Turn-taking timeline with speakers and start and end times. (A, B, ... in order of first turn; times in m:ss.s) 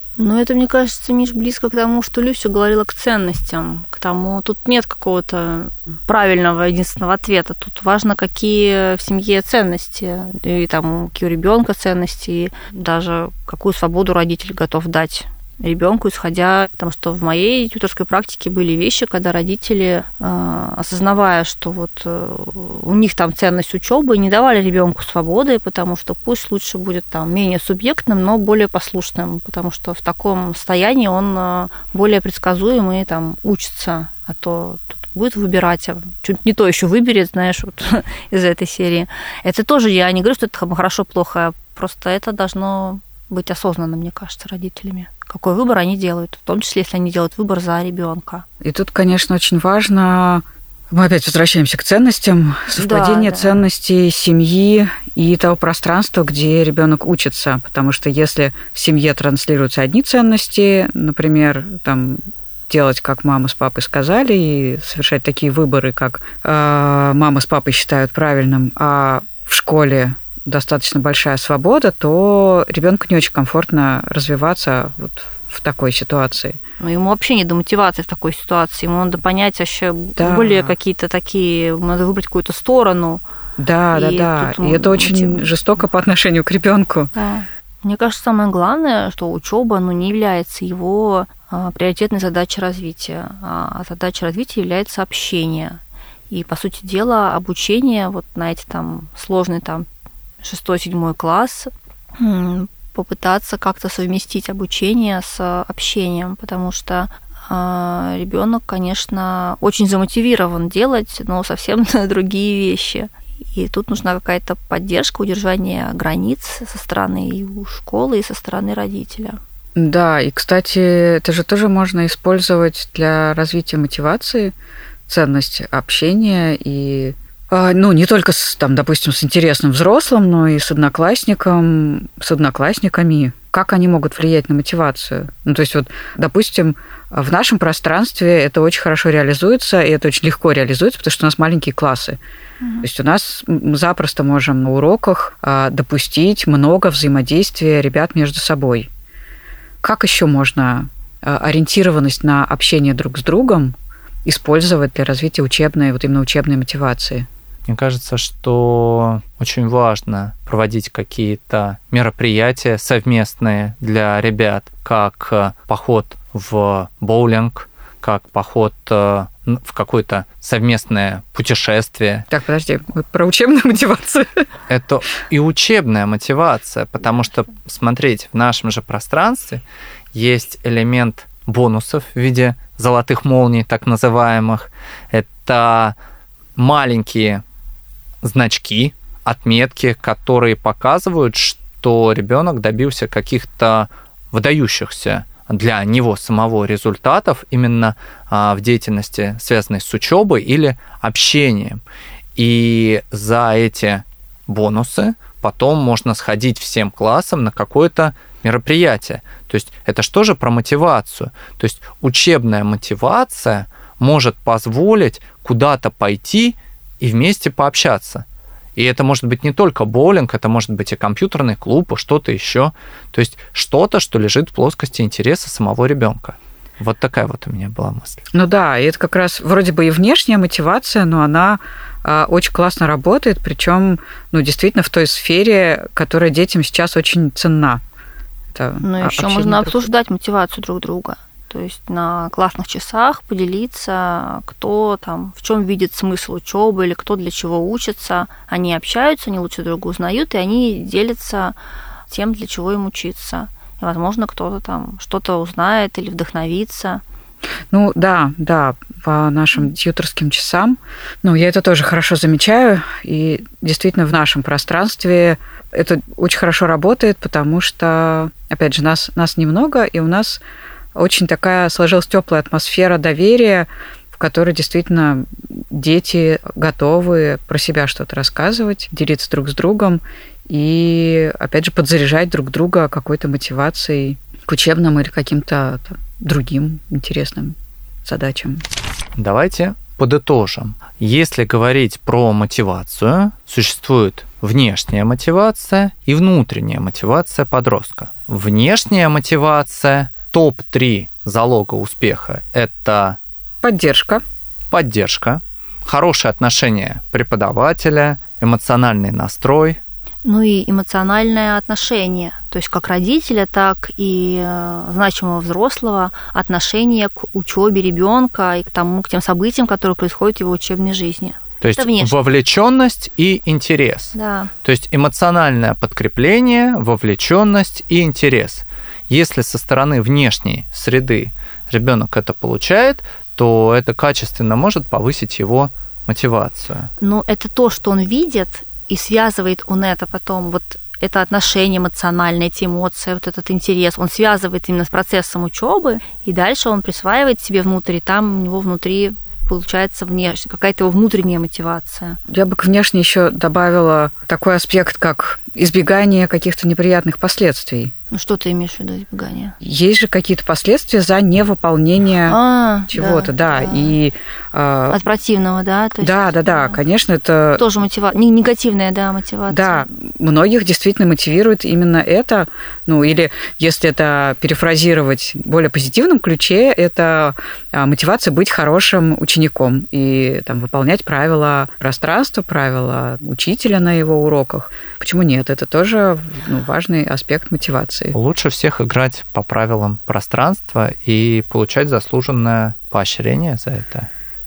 0:00.2-0:48.5 A
0:48.6-1:16.6 B
0:52.7-0:53.6 A
1:16.8-1:23.2 A
1:20.2-1:20.7 B
1:23.6-1:27.1 B
1:23.9-1:25.5 A
1:27.1-1:35.8 A
1:36.3-1:39.9 A
1:40.4-1:59.4 A
1:59.8-2:04.5 B
2:05.1-2:22.2 B
2:22.8-2:28.9 B
2:29.8-2:37.3 B
2:37.7-2:52.3 C
2:52.3-2:54.5 B
2:54.7-3:06.0 C
3:06.6-3:07.4 C
3:08.2-3:21.8 C
3:22.4-3:38.2 C
3:38.8-3:48.2 C
3:48.3-3:57.8 B
3:58.5-3:59.9 B
3:58.8-4:11.6 A
4:12.1-4:17.0 A
4:17.7-4:30.4 B
4:31.0-4:48.6 B
4:49.2-5:03.2 C
5:03.6-5:04.2 B
5:04.7-5:09.8 C
5:10.2-5:22.1 A
5:21.6-5:36.9 C
5:24.1-5:24.5 A
5:37.0-5:52.2 A
5:52.3-5:57.9 B
5:58.1-5:59.6 A
5:59.6-6:02.4 B
6:02.3-6:03.9 A
6:02.9-6:05.0 B
6:04.9-6:06.8 A
6:06.0-6:07.6 B
6:07.6-6:09.9 A
6:09.5-6:28.2 B
6:28.1-6:34.1 C